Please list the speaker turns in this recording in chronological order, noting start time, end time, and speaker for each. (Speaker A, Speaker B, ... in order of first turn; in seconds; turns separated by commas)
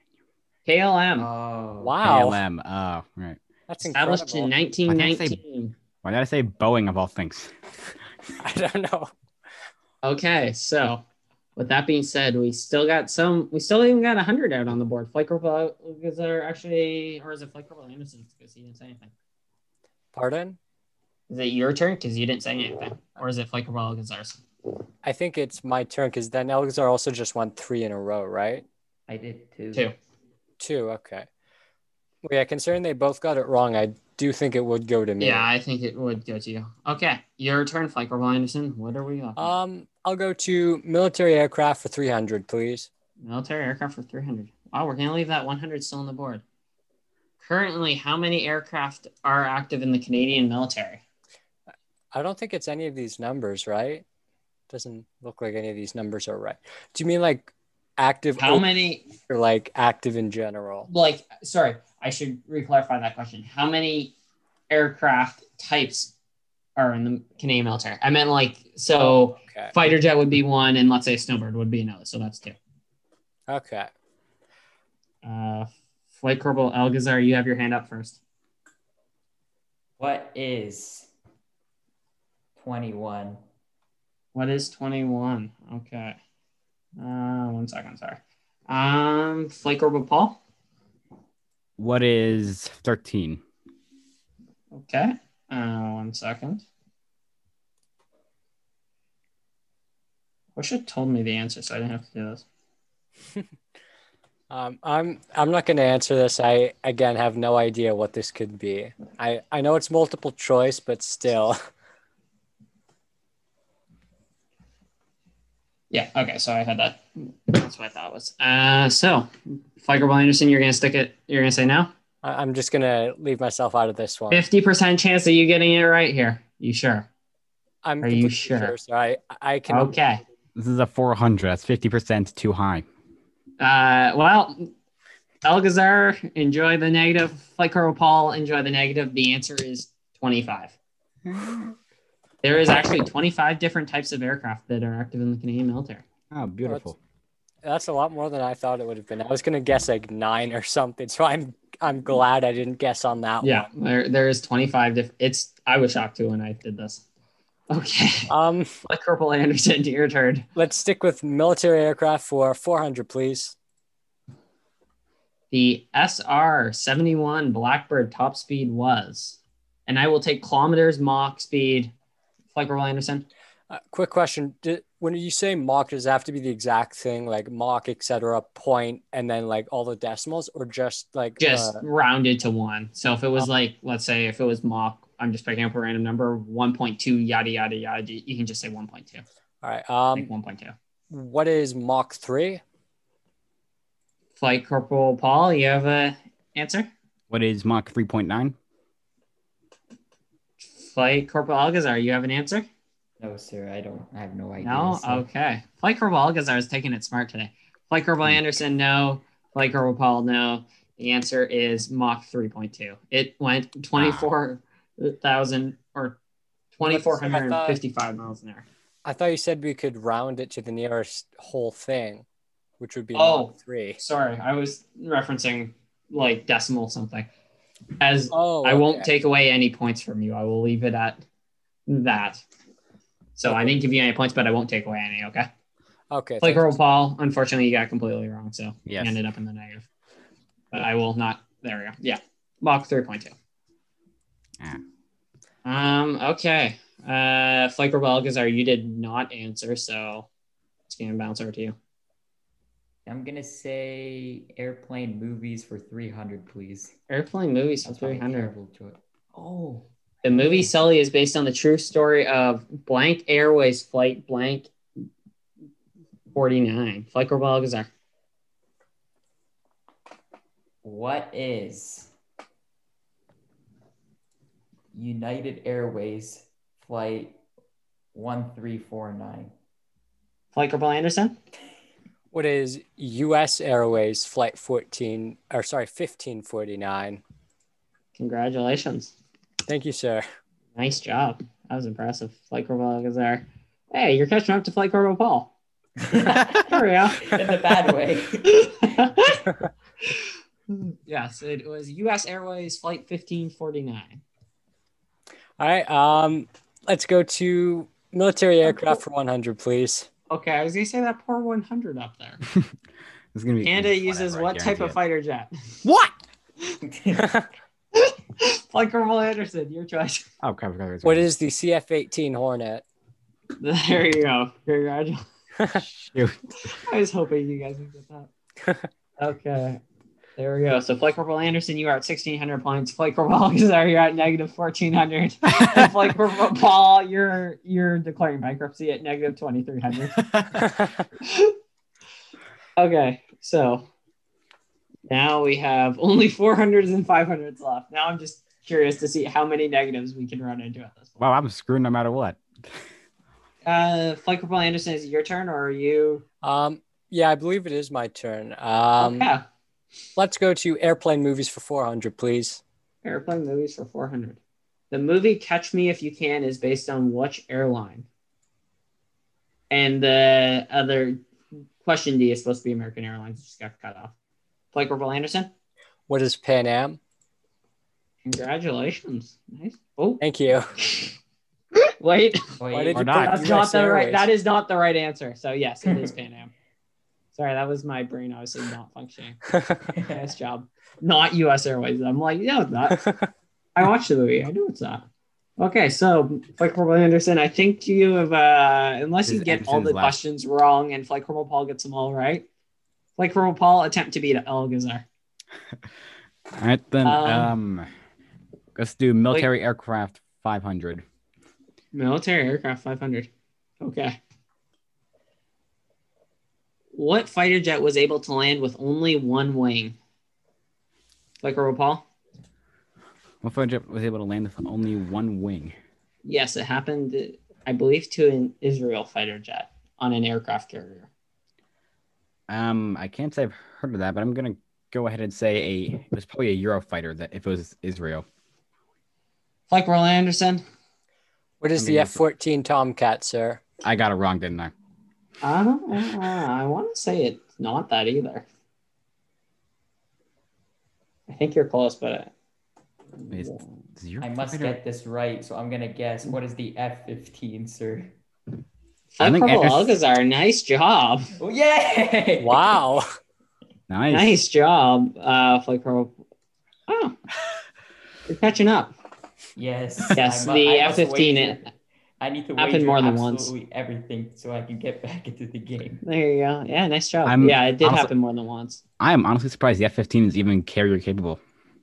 Speaker A: 0.7-1.3, Speaker B: 1.1-2.0, Speaker C: 1.8-2.4, Speaker D: 2.0-3.4, Speaker C: 3.7-4.5, Speaker A: 3.8-5.7, Speaker D: 4.9-5.4, Speaker D: 6.0-7.5, Speaker C: 8.4-9.1, Speaker A: 10.0-11.0, Speaker A: 11.6-19.1, Speaker C: 20.1-20.6, Speaker A: 21.3-24.4, Speaker C: 25.0-28.6, Speaker B: 29.1-29.9, Speaker C: 30.6-31.3, Speaker C: 32.2-35.5, Speaker A: 35.2-39.5, Speaker C: 39.4-42.9, Speaker A: 43.2-46.4, Speaker A: 47.4-51.0, Speaker C: 52.1-54.0, Speaker C: 54.7-60.9, Speaker A: 58.4-59.0, Speaker A: 60.9-64.1, Speaker A: 64.7-66.1, Speaker A: 66.8-72.6, Speaker C: 69.0-69.7, Speaker C: 73.5-73.9, Speaker A: 75.2-78.2, Speaker B: 80.0-81.1, Speaker B: 82.5-83.4, Speaker A: 84.3-86.2, Speaker A: 87.0-90.4, Speaker D: 91.8-93.4, Speaker A: 94.7-96.6, Speaker A: 100.5-102.4, Speaker C: 104.5-111.6, Speaker A: 115.9-121.9, Speaker C: 122.2-124.4, Speaker A: 124.3-127.1, Speaker C: 127.8-129.9, Speaker A: 128.0-128.7, Speaker A: 129.7-130.2, Speaker D: 130.6-132.8, Speaker A: 133.6-134.7, Speaker A: 135.4-140.7, Speaker D: 141.2-141.7, Speaker A: 142.4-146.0, Speaker D: 146.3-147.0, Speaker C: 147.6-153.7, Speaker A: 153.4-157.0, Speaker A: 157.7-158.3, Speaker C: 158.3-158.7, Speaker A: 158.8-160.4, Speaker C: 160.6-163.5, Speaker A: 165.5-171.9, Speaker A: 172.5-173.2, Speaker C: 173.7-181.8, Speaker A: 181.4-189.2, Speaker C: 189.6-190.3, Speaker A: 190.1-190.7, Speaker C: 191.1-192.6, Speaker A: 194.4-196.9, Speaker D: 197.3-198.5, Speaker A: 200.6-202.7, Speaker B: 203.2-205.2, Speaker A: 204.6-216.2, Speaker D: 213.9-214.3, Speaker A: 216.8-218.6, Speaker C: 216.8-217.8, Speaker C: 219.0-222.2, Speaker C: 222.8-224.0, Speaker A: 223.1-227.3, Speaker A: 228.0-231.2, Speaker C: 228.3-229.1, Speaker A: 231.9-232.4, Speaker A: 233.3-235.5, Speaker C: 233.5-233.7, Speaker C: 236.1-236.8, Speaker A: 236.4-239.9, Speaker D: 238.9-239.2, Speaker A: 240.7-243.3, Speaker A: 245.6-250.3, Speaker A: 250.9-251.7, Speaker B: 253.1-256.9, Speaker A: 257.1-258.5, Speaker B: 257.8-259.9, Speaker A: 260.2-264.7, Speaker A: 266.3-267.9, Speaker B: 270.8-272.1, Speaker B: 274.9-277.4, Speaker B: 278.1-279.5, Speaker A: 280.5-281.4, Speaker C: 282.3-287.2, Speaker A: 288.1-289.1, Speaker C: 289.7-290.2, Speaker A: 290.8-295.5, Speaker B: 296.0-299.3, Speaker A: 296.4-297.4, Speaker A: 298.4-299.4, Speaker A: 300.0-304.2, Speaker C: 305.6-310.1, Speaker A: 310.3-312.4, Speaker D: 313.3-315.0, Speaker A: 313.6-315.8, Speaker D: 315.8-316.1, Speaker B: 316.8-317.3, Speaker C: 317.2-317.5, Speaker A: 317.9-320.3, Speaker D: 320.4-321.2, Speaker C: 321.0-322.8, Speaker A: 323.6-325.2, Speaker D: 325.8-326.5, Speaker A: 326.6-328.3, Speaker A: 329.2-329.8, Speaker A: 330.4-340.4, Speaker D: 340.2-340.5, Speaker C: 340.6-341.0, Speaker A: 341.2-341.6, Speaker A: 342.8-343.8, Speaker A: 345.1-351.2, Speaker D: 351.2-352.4, Speaker A: 353.6-356.2, Speaker C: 356.4-359.3, Speaker A: 359.0-359.4, Speaker C: 360.1-362.6, Speaker A: 363.0-364.4, Speaker A: 364.9-368.1, Speaker A: 369.7-371.2, Speaker A: 371.8-374.1, Speaker A: 374.7-375.5, Speaker C: 376.1-377.0, Speaker A: 378.2-380.2, Speaker C: 380.2-380.8, Speaker A: 380.8-381.1, Speaker A: 381.8-382.4, Speaker B: 382.6-383.1, Speaker C: 382.7-384.3, Speaker D: 382.9-383.4, Speaker A: 383.2-386.5, Speaker B: 385.8-386.1, Speaker A: 387.3-393.0, Speaker C: 389.5-389.8, Speaker B: 390.0-390.2, Speaker C: 392.9-393.3, Speaker A: 393.8-395.1, Speaker A: 395.6-402.4, Speaker D: 399.2-400.2, Speaker A: 403.2-405.0, Speaker D: 406.5-407.9, Speaker A: 407.0-407.5, Speaker D: 408.7-411.0, Speaker A: 411.9-413.3, Speaker A: 413.8-414.2, Speaker A: 416.9-419.9, Speaker A: 421.4-422.1, Speaker D: 423.4-425.7, Speaker A: 426.2-431.1, Speaker D: 432.5-438.2, Speaker A: 439.7-440.6, Speaker C: 441.6-443.6, Speaker D: 441.8-442.2, Speaker D: 443.8-444.7, Speaker A: 445.4-448.4, Speaker A: 451.3-452.3, Speaker A: 453.3-453.6, Speaker D: 453.3-454.8, Speaker B: 454.2-458.1, Speaker A: 459.1-461.4, Speaker D: 459.2-460.0, Speaker B: 461.4-462.7, Speaker C: 462.4-463.1, Speaker D: 463.9-464.4, Speaker A: 464.1-466.1, Speaker A: 466.9-467.2, Speaker A: 468.3-468.9, Speaker B: 469.6-476.0, Speaker A: 470.1-471.6, Speaker A: 472.6-473.5, Speaker A: 476.0-478.8, Speaker D: 477.2-478.1, Speaker D: 479.0-481.4